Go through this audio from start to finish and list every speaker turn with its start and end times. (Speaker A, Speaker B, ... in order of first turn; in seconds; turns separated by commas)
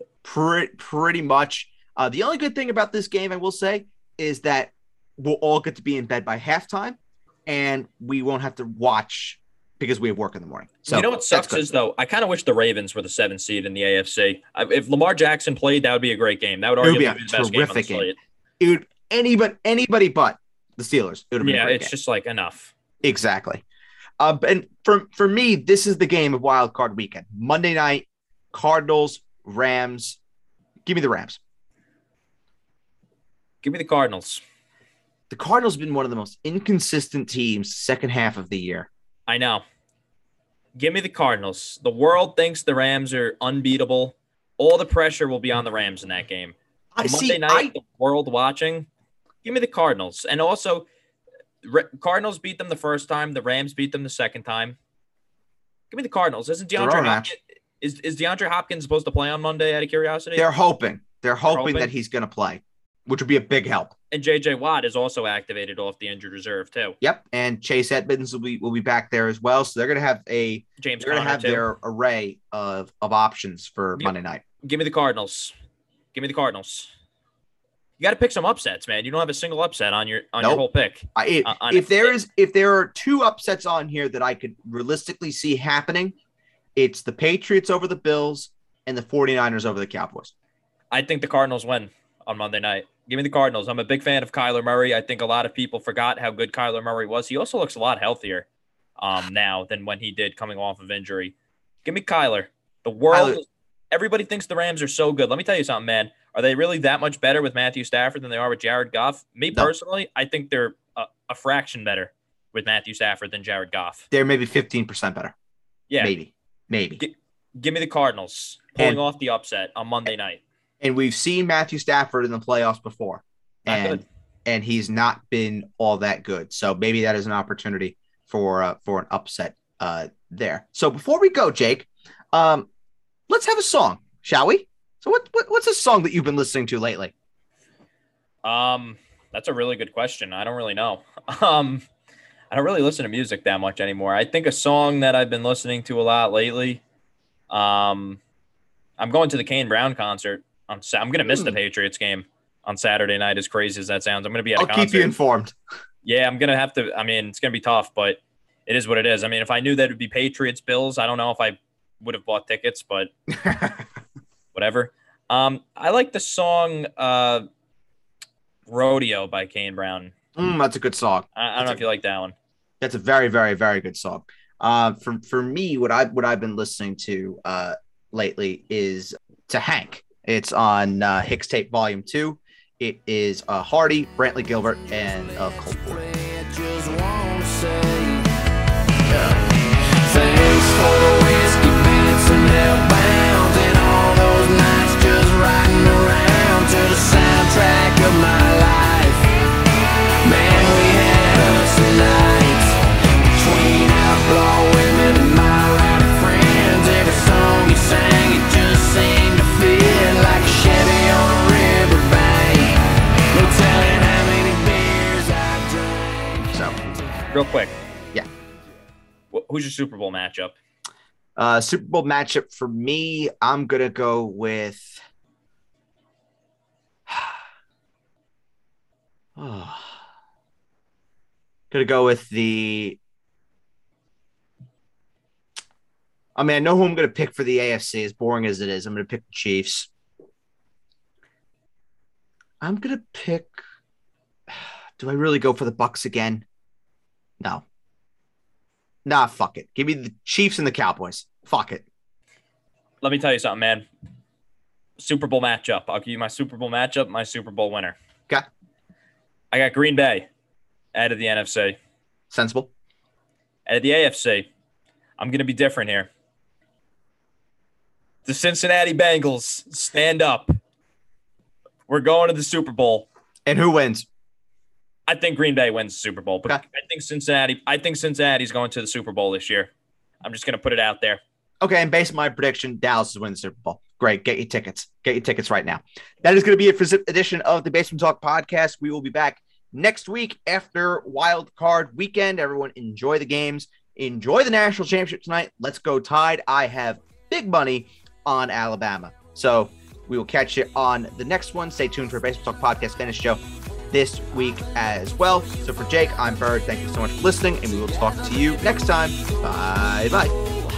Speaker A: 0.2-11.7, Speaker B: 10.9-18.2, Speaker A: 16.8-21.9, Speaker B: 21.4-22.7, Speaker A: 23.0-23.6, Speaker A: 24.2-30.2, Speaker A: 30.9-31.4, Speaker B: 33.6-34.4, Speaker A: 35.3-38.9, Speaker B: 39.3-39.6, Speaker B: 40.8-48.9, Speaker A: 46.9-47.7, Speaker B: 49.4-50.9, Speaker B: 51.6-54.8, Speaker B: 55.9-60.5, Speaker A: 56.8-57.3, Speaker A: 60.4-63.9, Speaker B: 61.5-61.9, Speaker B: 64.1-67.0, Speaker A: 67.0-74.4, Speaker B: 70.8-71.7, Speaker B: 74.0-75.5, Speaker B: 76.1-76.9, Speaker B: 78.0-82.1, Speaker A: 81.2-86.2, Speaker A: 86.8-90.3, Speaker B: 90.9-98.5, Speaker B: 99.0-114.1, Speaker A: 103.1-103.4, Speaker A: 114.1-115.3, Speaker A: 116.0-117.0, Speaker B: 117.0-120.4, Speaker A: 120.8-132.7, Speaker B: 123.7-124.0, Speaker A: 133.3-137.1, Speaker B: 138.4-141.8, Speaker B: 142.5-146.8, Speaker B: 147.5-148.2, Speaker B: 149.0-155.1, Speaker A: 151.3-151.6, Speaker A: 154.6-155.6, Speaker B: 156.0-163.1, Speaker A: 163.3-163.8, Speaker B: 164.5-167.5, Speaker B: 168.7-170.1, Speaker A: 170.4-171.8, Speaker B: 171.4-172.3, Speaker A: 172.8-186.0, Speaker C: 185.8-188.3, Speaker A: 189.1-189.4, Speaker C: 189.3-199.3, Speaker C: 200.2-202.8, Speaker C: 203.3-217.3, Speaker A: 216.5-216.8, Speaker B: 217.3-217.7, Speaker B: 219.3-220.5, Speaker A: 221.4-225.0, Speaker A: 227.1-227.4, Speaker A: 229.4-230.0, Speaker A: 231.7-233.0, Speaker A: 236.4-239.9, Speaker A: 242.6-243.6, Speaker A: 244.5-246.5, Speaker A: 249.1-251.8, Speaker B: 253.0-253.9, Speaker B: 255.0-258.0, Speaker B: 259.5-260.3, Speaker B: 260.9-261.8, Speaker A: 262.3-262.7, Speaker B: 263.7-264.5, Speaker B: 265.2-266.1, Speaker B: 268.2-270.5, Speaker B: 271.9-273.1, Speaker A: 273.5-274.1, Speaker B: 275.1-279.7, Speaker B: 280.2-281.2, Speaker A: 281.6-303.4, Speaker A: 303.9-310.4